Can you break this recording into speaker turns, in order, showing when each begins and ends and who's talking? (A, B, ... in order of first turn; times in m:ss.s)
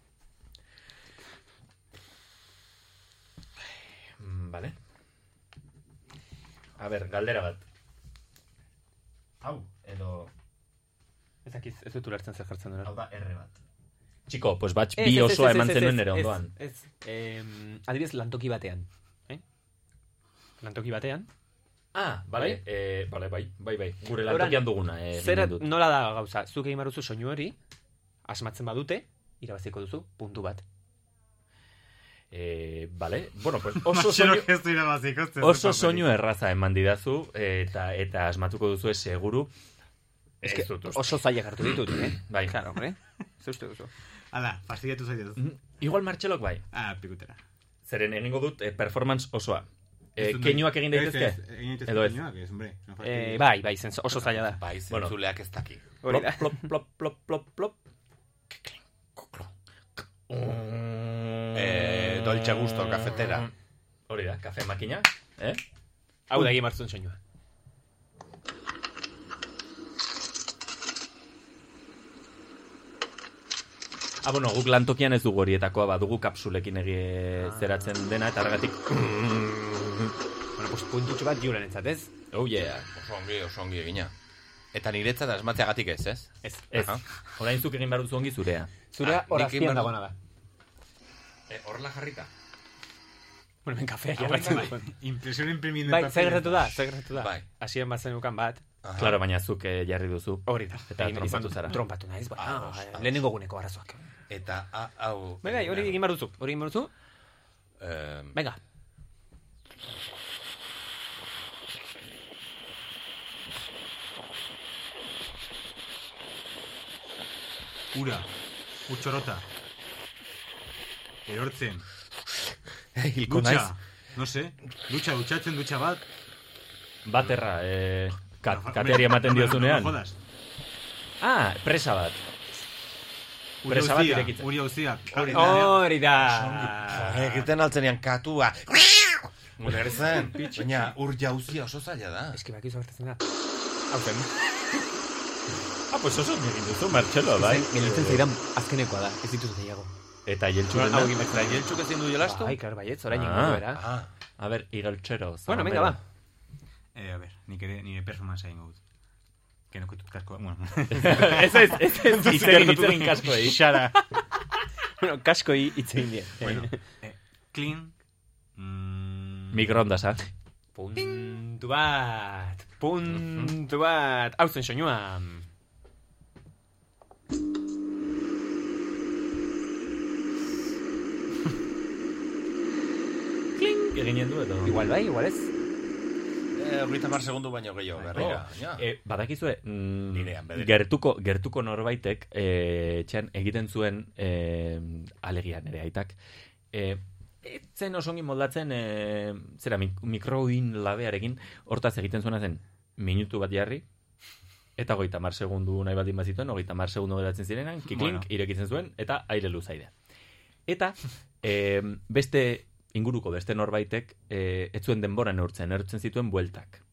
0:04.2-0:04.7 A
0:06.8-0:07.6 A
0:09.4-0:10.3 A
0:11.4-0:12.9 B
0:12.8-0:13.6 A
0:14.3-0:16.5 A
0:15.0-0:19.4 B
0:20.6-0:21.3 B
0:21.9-0:25.7 A
0:24.2-0:27.6 B
0:28.2-0:30.6 B
0:32.3-0:34.5 A
0:33.7-0:36.1 C
0:35.4-0:39.5 A
0:40.4-0:41.2 A
0:40.4-0:43.9 B
0:42.3-0:42.6 A
0:44.3-0:45.4 C
0:45.4-0:46.6 A
0:46.7-0:47.4 C
0:47.9-0:52.2 A
0:50.2-0:53.5 C
0:53.0-0:54.6 B
0:54.4-0:55.8 D
0:54.9-0:55.2 A
0:56.0-0:56.7 B
0:56.0-0:57.8 A
0:58.5-1:03.5 A
1:01.5-1:03.5 D
1:04.1-1:05.6 A
1:06.3-1:07.2 B
1:14.2-1:19.2 A
1:17.4-1:17.9 B
1:20.6-1:22.1 B
1:22.3-1:22.9 A
1:22.9-1:24.1 D
1:24.7-1:27.0 D
1:26.7-1:28.7 A
1:28.9-1:30.2 B
1:29.0-1:29.9 D
1:31.5-1:32.3 D
1:33.6-1:34.9 B
1:34.2-1:34.7 D
1:34.3-1:36.7 C
1:35.8-1:38.6 B
1:37.1-1:37.4 D
1:38.8-1:39.2 D
1:39.0-1:41.8 A
1:40.5-1:44.0 B
1:42.4-1:43.2 D
1:44.3-1:46.0 D
1:45.4-1:46.9 B
1:47.8-1:48.4 D
1:48.3-1:48.6 B
1:57.9-1:58.3 C
1:58.9-1:59.4 C
2:01.2-2:01.8 C
2:03.0-2:03.7 D
2:03.2-2:06.0 C
2:07.0-2:10.0 A
2:08.4-2:10.2 C
2:11.2-2:12.2 A
2:13.6-2:15.8 C
2:13.6-2:14.4 A
2:15.1-2:22.4 D
2:15.3-2:17.3 B
2:22.3-2:23.3 B
2:23.9-2:24.3 B
2:25.9-2:28.2 A
2:27.4-2:29.9 B
2:30.2-2:31.2 A
2:30.7-2:33.8 B
2:31.2-2:32.6 D
2:33.1-2:33.7 A
2:33.7-2:34.1 D
2:34.4-2:36.0 A
2:35.5-2:36.0 B
2:36.9-2:38.8 C
2:39.7-2:41.7 C
2:40.9-2:43.8 A
2:41.6-2:43.2 B
2:42.3-2:44.0 C
2:45.0-2:46.8 B
2:46.4-2:47.9 C
2:48.6-2:49.8 C
2:49.5-2:50.2 A
2:50.7-2:55.5 B
3:03.6-3:04.8 A
3:04.6-3:05.5 B
3:06.5-3:08.8 D
3:08.0-3:16.2 A
3:10.1-3:10.7 D
3:16.7-3:23.8 A
3:24.8-3:29.9 A
3:27.9-3:28.2 C
3:30.7-3:36.8 A